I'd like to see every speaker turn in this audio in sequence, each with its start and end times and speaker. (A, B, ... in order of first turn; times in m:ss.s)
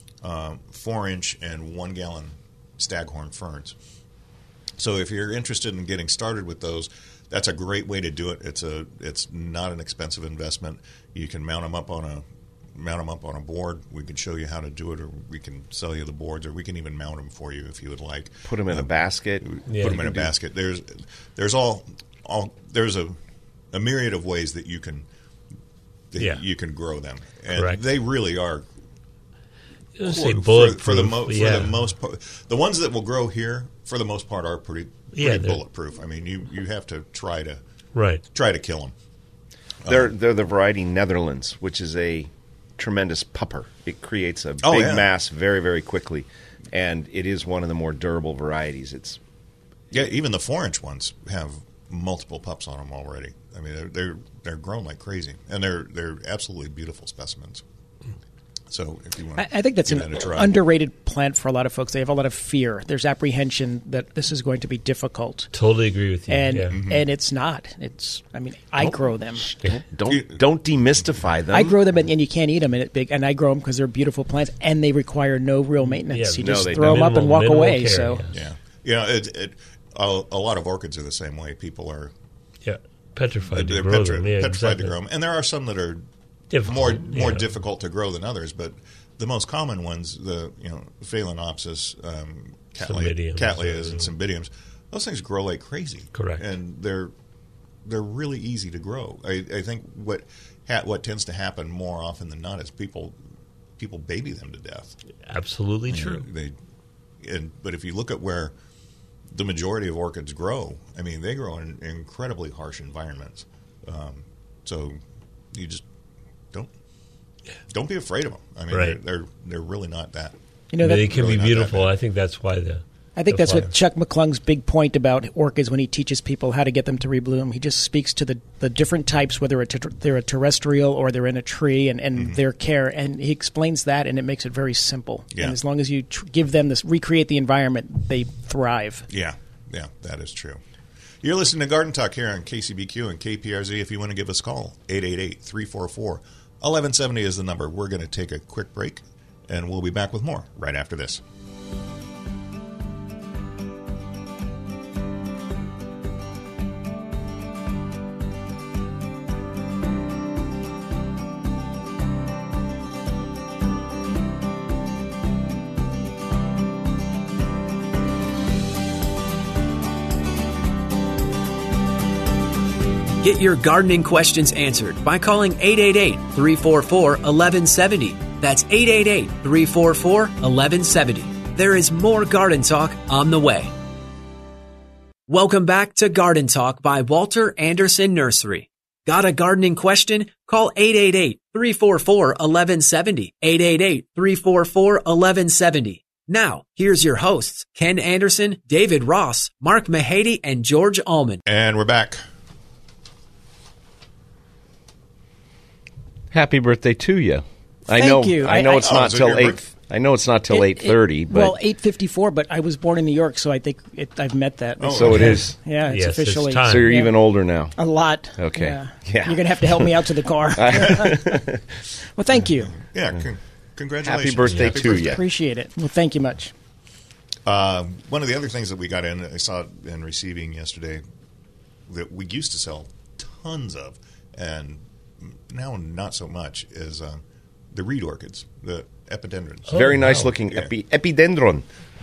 0:00.2-0:03.8 A
0:04.8-0:18.9 A
0:18.4-0:20.2 B
0:19.4-0:23.2 A
0:19.7-0:20.0 C
0:23.7-0:25.1 A
0:26.1-0:28.6 A
0:27.5-0:27.8 C
0:30.0-0:31.8 C
0:30.0-0:37.6 A
0:35.1-0:35.6 C
0:37.9-0:38.2 C
0:38.3-0:38.9 A
0:39.8-0:40.1 A
0:39.9-0:49.2 B
0:44.6-0:45.1 A
0:49.9-0:57.6 A
0:58.7-1:00.6 A
0:59.4-1:05.5 D
1:05.5-1:06.8 C
1:06.3-1:09.5 D
1:06.7-1:07.0 A
1:08.8-1:11.8 B
1:10.1-1:10.4 A
1:11.5-1:18.2 D
1:16.1-1:18.4 C
1:16.4-1:17.1 B
1:18.3-1:22.1 A
1:22.6-1:24.9 C
1:23.5-1:26.0 A
1:26.5-1:27.5 C
1:26.6-1:37.1 A
1:32.8-1:34.1 C
1:36.1-1:36.4 C
1:37.8-1:43.2 A
1:43.8-1:44.9 A
1:45.2-1:46.3 C
1:45.9-1:46.5 A
1:47.2-1:48.5 A
1:49.3-1:55.0 A
1:55.5-1:55.8 A
1:57.7-2:01.9 A
1:58.7-1:59.0 C
2:00.7-2:01.1 D
2:00.8-2:03.7 C
2:03.2-2:19.1 D
2:12.1-2:12.4 A
2:15.3-2:15.6 A
2:19.1-2:20.6 A
2:21.2-2:31.2 A
2:53.2-3:03.7 E
3:05.3-3:21.4 E
3:21.4-3:22.2 A
3:26.3-3:31.6 B
3:27.9-3:28.9 D
3:28.7-3:29.6 A
3:30.5-3:37.1 D
3:34.8-3:35.4 A
3:34.9-3:35.5 B
3:35.1-3:37.0 C
3:36.6-3:37.7 B
3:37.8-3:41.4 D
3:38.4-3:40.0 B
3:40.5-3:41.7 B
3:42.2-3:42.8 D
3:42.6-3:45.2 A
3:44.0-3:45.2 B
3:44.8-3:46.5 D
3:47.4-3:51.0 A
3:51.9-3:59.9 A
3:59.7-4:00.3 C
3:59.7-4:01.6 B